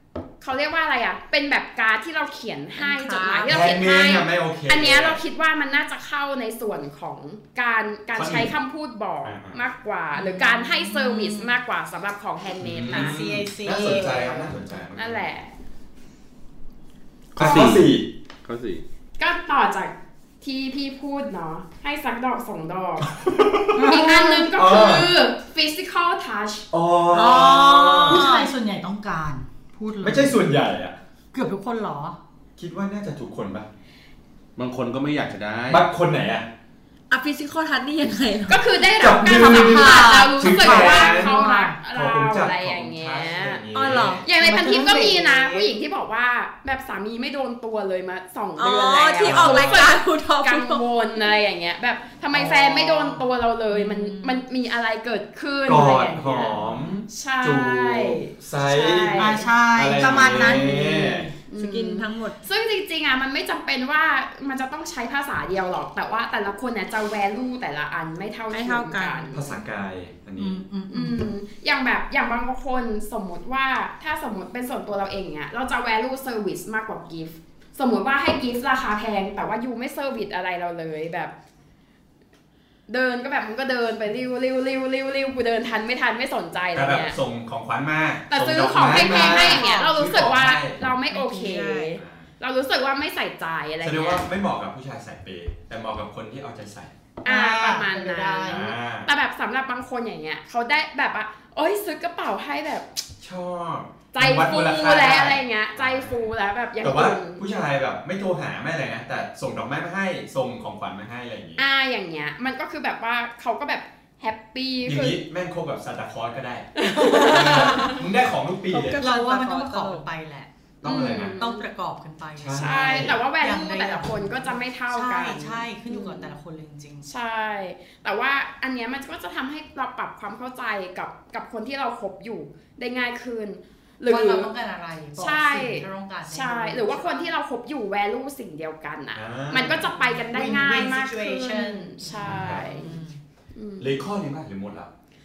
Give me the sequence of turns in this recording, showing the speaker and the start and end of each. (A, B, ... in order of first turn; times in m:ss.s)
0:00.4-0:13.2 A
0:02.8-0:03.6 B
0:03.5-0:05.2 C
0:08.2-0:08.6 C
0:09.2-0:09.6 C
0:10.2-0:11.5 D
0:12.6-0:15.2 C
0:12.8-0:14.5 D
0:15.0-0:15.5 A
0:17.4-0:17.9 E
0:17.4-0:18.1 C
0:17.4-0:17.8 A
0:18.4-0:18.8 E
0:19.2-0:23.1 A
0:23.2-0:23.8 C
0:23.8-0:24.5 D
0:23.8-0:26.7 A
0:24.6-0:25.1 C
0:26.7-0:28.3 C
0:27.1-0:28.5 B
0:28.1-0:30.4 D
0:30.0-0:31.0 C
0:31.3-0:32.2 D
0:32.6-0:33.7 C
0:34.6-0:35.9 E
0:35.7-0:36.5 C
0:37.1-0:38.7 B
0:38.5-0:43.6 A
0:39.0-0:41.4 C
0:39.3-0:41.7 D
0:39.4-0:41.0 B
0:41.9-0:44.2 C
0:43.7-0:44.2 B
0:44.2-0:59.5 A
0:44.4-0:45.7 D
0:48.6-0:50.8 B
0:49.2-0:49.9 C
0:52.3-0:53.2 D
0:53.7-0:54.4 B
0:55.7-1:01.3 C
0:59.2-1:01.3 D
1:00.0-1:01.0 B
1:01.4-1:09.6 A
1:01.6-1:02.4 B
1:08.5-1:09.3 B
1:09.3-1:10.6 C
1:10.4-1:11.2 D
1:10.9-1:21.3 A
1:22.9-1:27.2 A
1:26.7-1:30.8 C
1:28.3-1:34.2 A
1:28.9-1:29.8 B
1:31.1-1:31.9 B
1:32.0-1:32.3 C
1:33.8-1:36.9 C
1:37.2-1:43.0 A
1:37.3-1:38.7 D
1:38.4-1:39.1 C
1:43.2-1:46.3 C
1:44.1-1:47.4 A
1:46.8-1:51.6 C
1:51.6-1:55.2 A
1:54.9-1:56.7 C
1:56.8-1:58.0 A
1:57.3-1:59.0 C
1:57.3-1:57.9 D
1:58.7-2:00.0 B
1:58.8-2:07.1 D
2:00.8-2:01.4 C
2:00.8-2:01.6 A
2:02.4-2:03.2 C
2:02.5-2:06.4 A
2:07.0-2:14.5 A
2:14.1-2:17.3 D
2:15.2-2:22.9 A
2:19.2-2:19.9 C
2:20.0-2:23.1 D
2:22.3-2:22.8 C
2:23.5-2:23.9 A
2:23.8-2:24.9 C